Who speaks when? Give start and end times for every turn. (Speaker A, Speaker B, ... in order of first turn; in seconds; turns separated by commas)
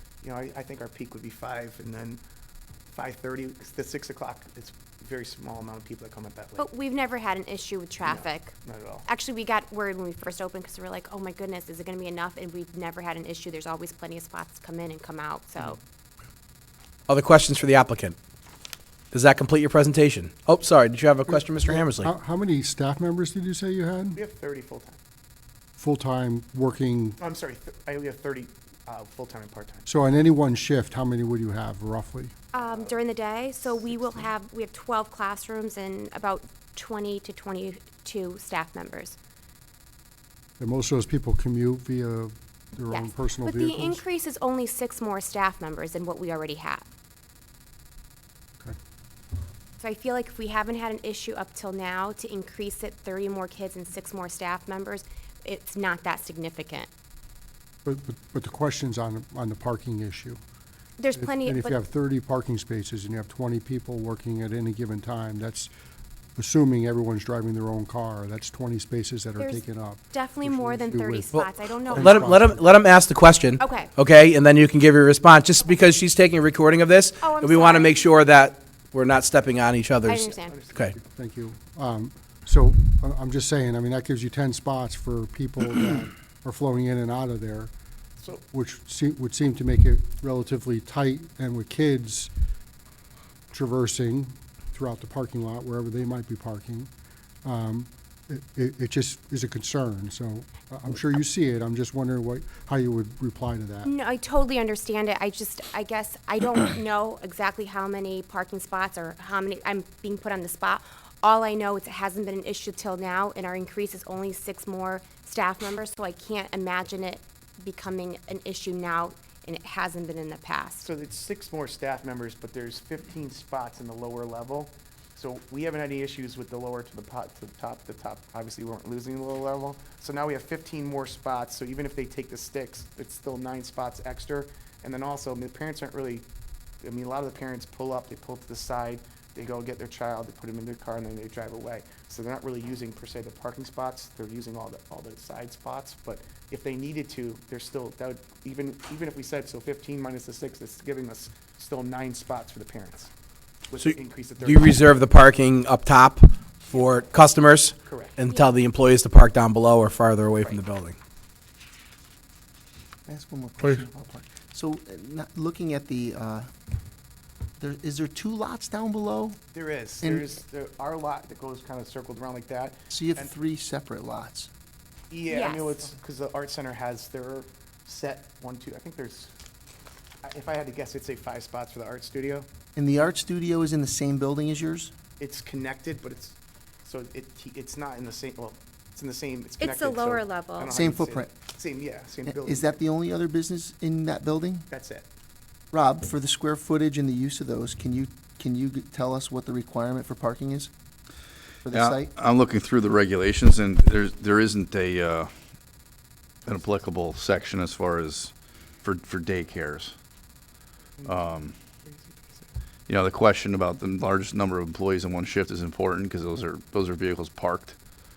Speaker A: 0.2-2.2, Speaker A: 2.9-6.7, Speaker B: 6.6-8.5, Speaker A: 8.0-9.1, Speaker B: 9.1-15.8, Speaker C: 17.1-18.2, Speaker C: 19.1-22.1, Speaker D: 21.3-24.2, Speaker A: 24.2-25.0, Speaker D: 25.8-27.2, Speaker A: 27.2-29.9, Speaker D: 29.9-32.4, Speaker B: 32.5-39.2, Speaker A: 32.6-32.9, Speaker A: 33.7-34.2, Speaker D: 40.6-44.0, Speaker B: 42.9-46.9, Speaker B: 49.8-56.9, Speaker D: 57.9-60.4, Speaker B: 61.0-61.8, Speaker D: 61.1-65.7, Speaker D: 66.4-72.8, Speaker B: 69.4-72.4, Speaker C: 71.3-81.0, Speaker B: 73.6-73.9, Speaker B: 77.2-78.0, Speaker B: 80.0-80.6, Speaker A: 80.3-81.0, Speaker D: 81.1-87.7, Speaker D: 88.5-92.3, Speaker D: 93.5-96.9, Speaker D: 97.4-103.9, Speaker B: 103.8-120.9, Speaker A: 120.8-136.2, Speaker A: 136.8-153.1, Speaker A: 153.7-154.8, Speaker C: 153.8-161.0, Speaker A: 157.9-158.2, Speaker E: 163.1-166.5, Speaker E: 167.6-169.4, Speaker A: 169.5-173.3, Speaker E: 170.0-170.3, Speaker E: 172.9-174.5, Speaker A: 175.1-179.3, Speaker B: 175.3-175.8, Speaker A: 180.2-182.5, Speaker E: 182.8-184.9, Speaker A: 185.2-192.8, Speaker B: 189.6-190.7, Speaker E: 190.7-191.3, Speaker E: 192.3-194.7, Speaker A: 194.7-195.1, Speaker E: 195.7-200.7, Speaker E: 201.7-202.1, Speaker F: 201.7-205.3, Speaker F: 206.5-210.0, Speaker A: 211.0-211.3, Speaker F: 211.1-211.6, Speaker A: 211.8-212.5, Speaker F: 212.9-217.8